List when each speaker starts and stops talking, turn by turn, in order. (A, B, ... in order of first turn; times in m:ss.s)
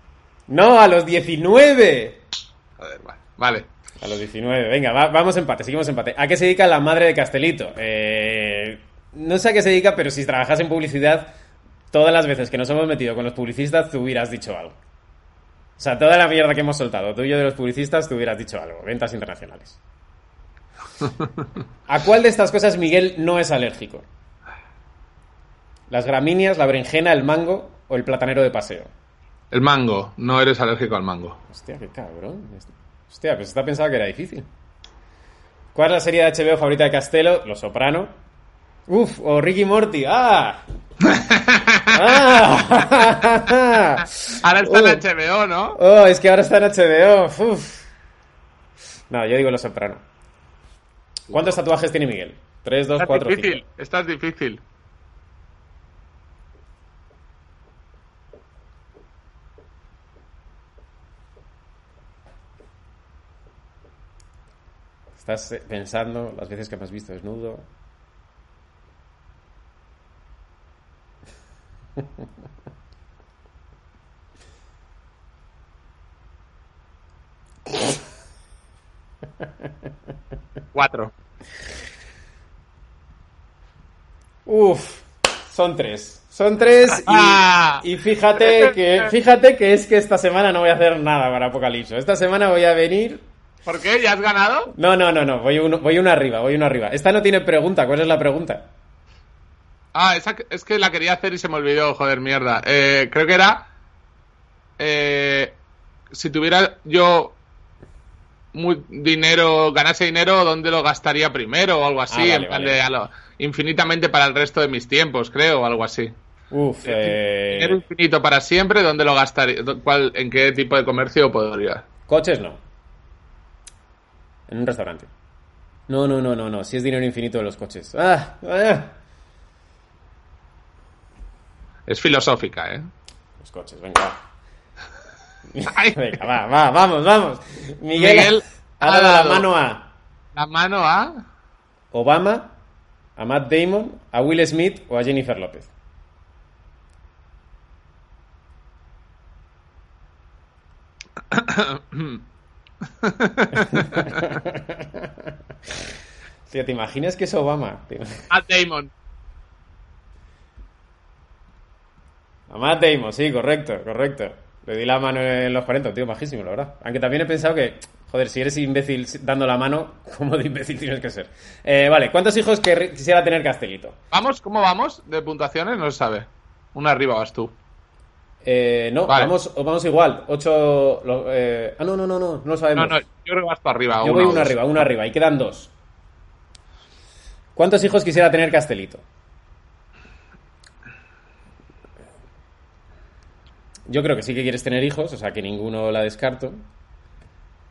0:00.5-0:02.2 A
0:02.8-0:03.7 B
0:04.0-0:11.3 A
0:11.9-0:14.8 A
0:15.8-0:19.8 A
0:21.9-0:24.0 A
0:25.9-0:28.9 A
0:29.5-0:31.4 B
0:31.5-0:34.5 A
0:35.7-0:38.1 A
0:38.9-0:40.6 A
0:41.0-0:42.3 B
0:41.9-0:45.0 A
0:44.4-0:45.8 B
0:45.7-0:47.9 A
0:49.1-0:50.0 A
0:51.3-0:53.6 A
0:53.0-0:54.6 B
1:05.2-1:07.6 A
1:20.7-1:21.1 B
1:24.4-1:33.2 A
1:26.9-1:27.8 B
1:28.4-1:29.1 B
1:33.6-1:34.7 B
1:34.7-1:38.7 A
1:39.9-1:43.7 B
1:44.8-1:45.6 B
1:46.1-1:47.4 B
1:48.5-1:56.1 B
1:52.1-1:52.8 A
1:56.5-1:57.8 A
1:56.8-2:01.8 B
2:02.1-2:02.6 A
2:04.5-2:05.1 A
2:05.9-2:08.9 A
2:11.8-2:12.9 B
2:13.4-2:14.2 A
2:15.5-2:19.9 A
2:15.7-2:16.0 B
2:18.0-2:19.5 B
2:20.3-2:21.1 B
2:21.9-2:22.5 A
2:23.2-2:25.7 A
2:31.3-2:32.2 B
2:33.0-2:34.2 B
2:33.6-2:35.1 A
2:36.5-2:38.3 A
2:38.3-2:38.9 B
2:42.5-2:54.0 A
2:54.1-2:57.5 B
2:58.4-3:03.0 A
3:02.7-3:04.6 B
3:04.0-3:05.7 A
3:07.6-3:09.0 A
3:13.9-3:16.6 A